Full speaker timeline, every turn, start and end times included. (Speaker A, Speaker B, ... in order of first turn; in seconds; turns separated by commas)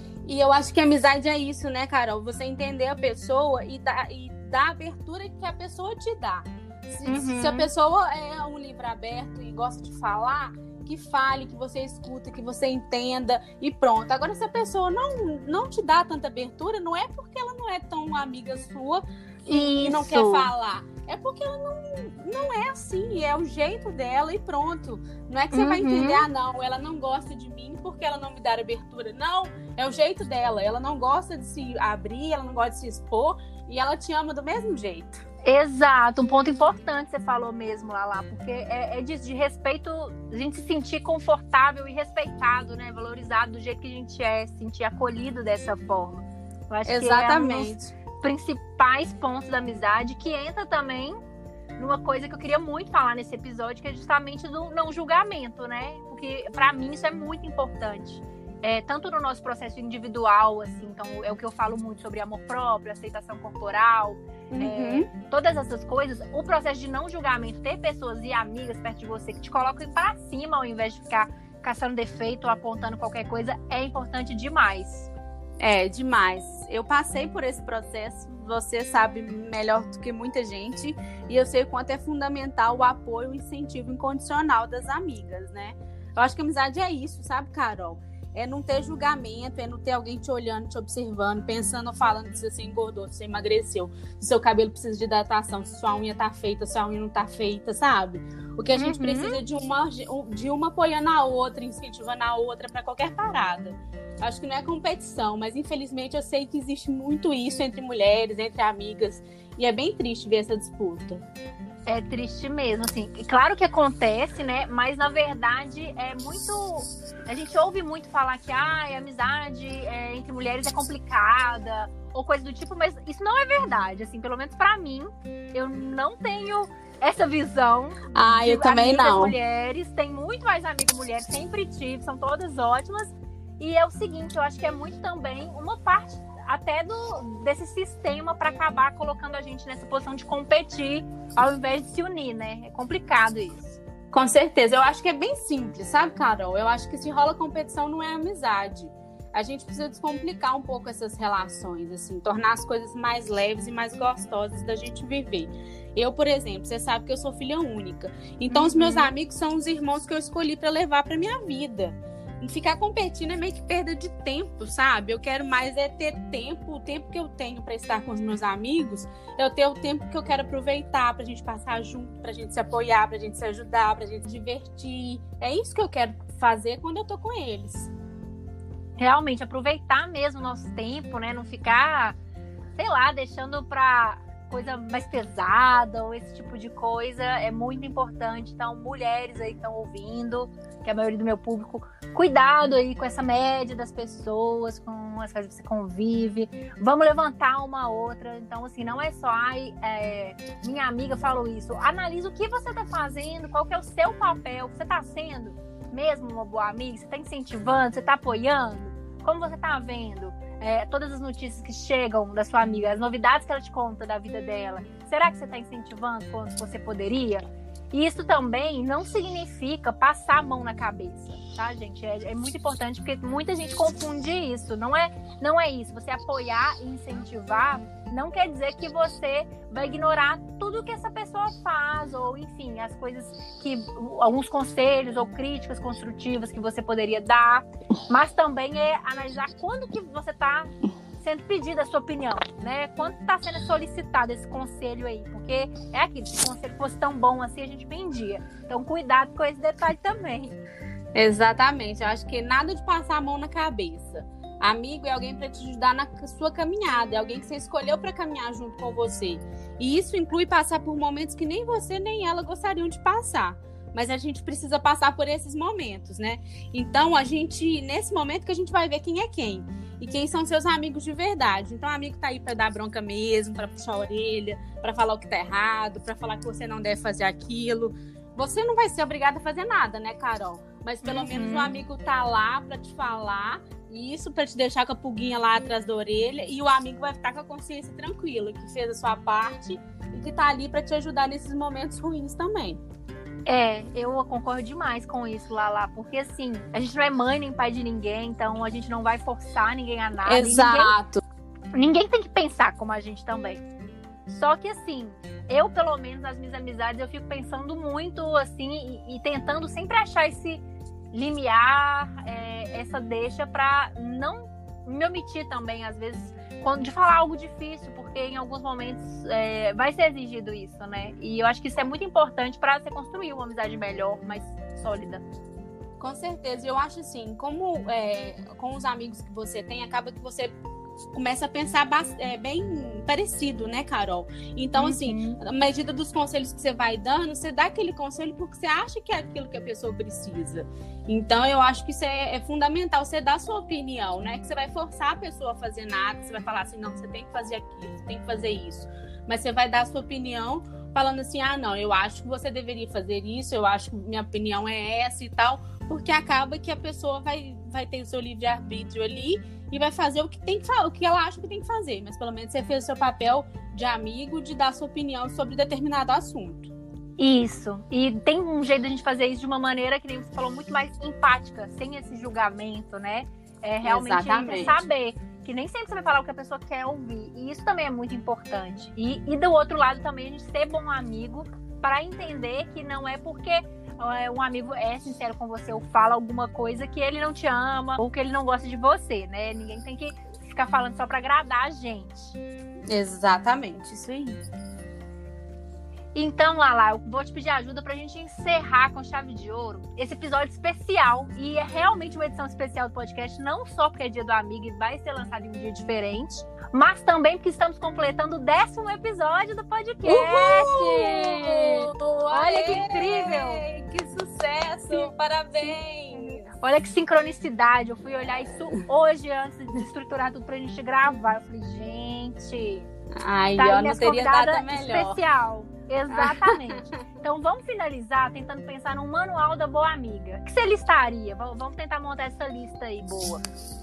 Speaker A: 0.2-35.2, Speaker B: 7.1-7.7, Speaker B: 19.5-20.5, Speaker B: 25.5-26.3, Speaker B: 35.5-51.2, Speaker A: 46.9-47.9, Speaker B: 51.8-75.1, Speaker A: 64.5-65.1, Speaker A: 75.6-111.2, Speaker B: 98.8-99.4, Speaker B: 111.9-143.8, Speaker A: 128.1-129.3, Speaker A: 144.1-177.9, Speaker B: 158.5-159.1, Speaker B: 179.0-182.2, Speaker B: 182.8-250.6, Speaker A: 251.2-292.8, Speaker B: 281.0-281.8, Speaker B: 293.4-300.9, Speaker A: 300.3-301.2, Speaker B: 301.7-303.6, Speaker B: 304.3-310.6, Speaker B: 311.1-325.2, Speaker A: 326.0-330.6, Speaker A: 331.1-366.7, Speaker B: 334.8-335.4, Speaker B: 367.2-392.4, Speaker A: 373.8-374.8, Speaker A: 392.9-394.4, Speaker B: 396.1-413.6, Speaker A: 410.1-416.4, Speaker B: 415.6-422.9, Speaker A: 423.2-425.2, Speaker B: 423.6-433.4, Speaker A: 426.1-426.8